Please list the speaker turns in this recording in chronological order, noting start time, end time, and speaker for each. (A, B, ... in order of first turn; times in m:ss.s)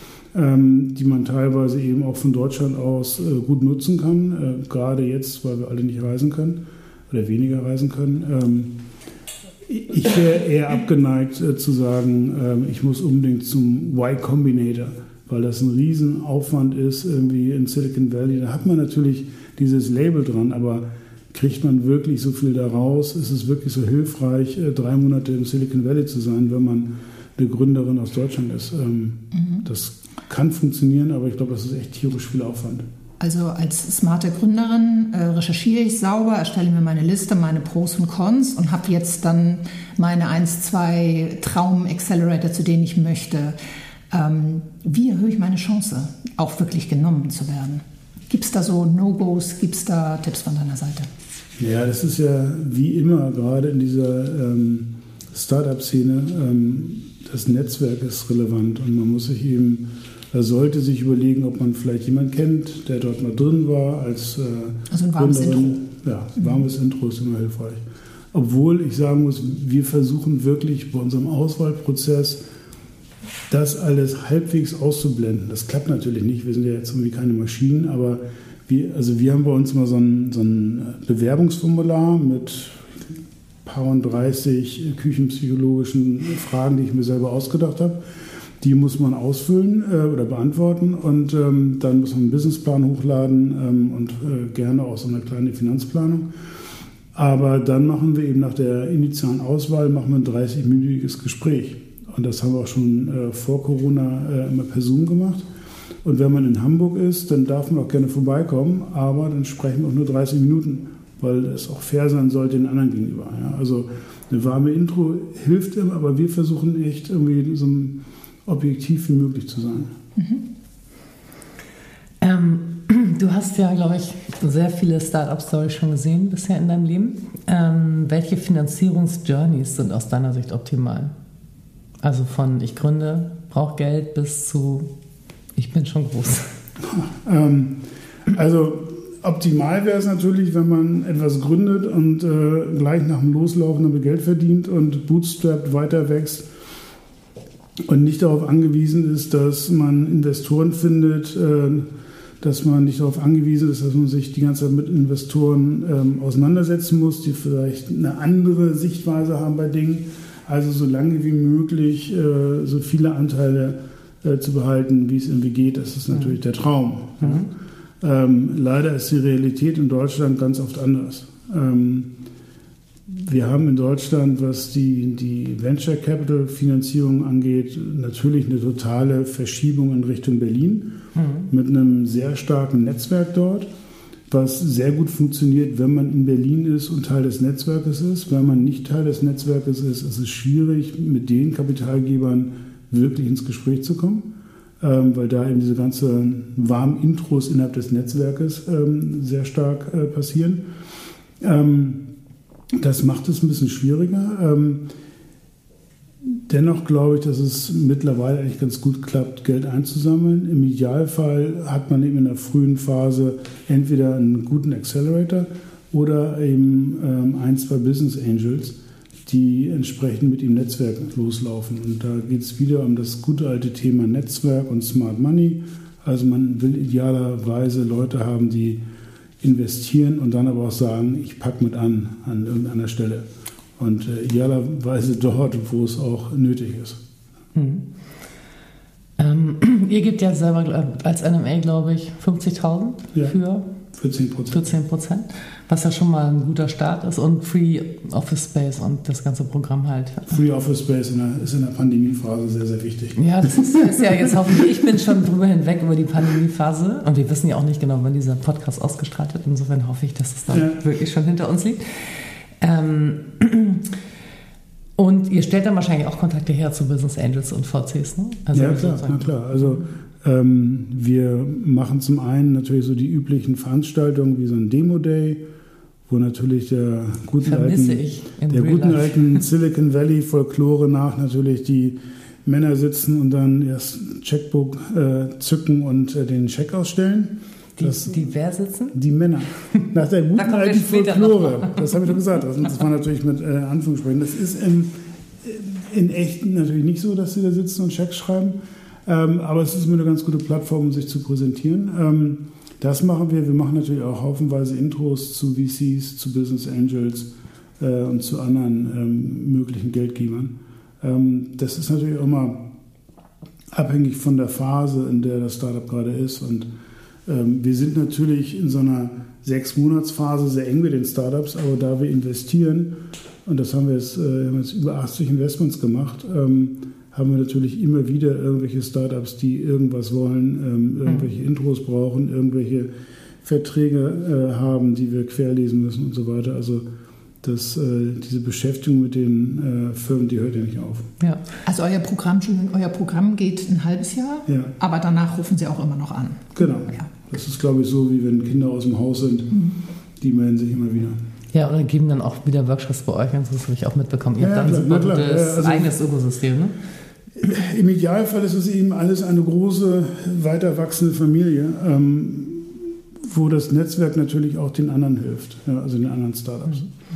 0:00.3-0:08.7 A
0:09.7-0:32.9 A
0:29.4-0:29.6 B
0:33.2-0:43.6 B
0:44.1-0:51.1 B
0:51.6-1:12.4 A
1:04.9-1:05.8 B
1:13.5-1:28.0 A
1:28.6-1:36.3 A
1:37.1-1:45.4 A
1:46.0-1:59.9 A
2:00.2-2:00.4 B
2:02.2-2:11.1 C
2:12.0-2:14.9 C
2:15.6-2:16.5 C
2:16.8-2:26.5 A
2:27.9-2:52.1 A
2:47.2-2:47.5 C
2:53.1-3:00.9 A
3:01.2-3:01.5 C
3:01.5-3:03.7 A
3:04.3-3:20.6 A
3:21.4-3:22.1 A
3:22.8-3:24.9 A
3:26.2-3:48.8 A
3:49.4-3:53.3 A
3:53.8-3:57.0 A
3:57.6-3:57.8 C
3:59.2-4:03.7 C
4:03.9-4:04.7 A
4:04.5-4:10.4 C
4:10.3-4:14.1 A
4:13.2-4:23.9 C
4:20.5-4:20.8 A
4:25.0-4:29.8 C
4:28.5-4:35.4 A
4:36.1-4:48.3 A
4:37.4-4:39.4 C
4:47.8-4:49.0 C
4:48.9-5:12.6 A
4:50.4-4:52.0 C
5:13.7-5:16.7 A
5:17.3-5:32.9 A
5:33.4-5:36.9 A
5:37.4-5:41.1 A
5:41.6-5:47.1 B
5:44.5-5:44.7 A
5:46.6-5:49.7 A
5:50.2-5:51.2 A
5:51.5-5:56.8 C
5:54.4-5:56.0 A
5:57.4-6:06.9 A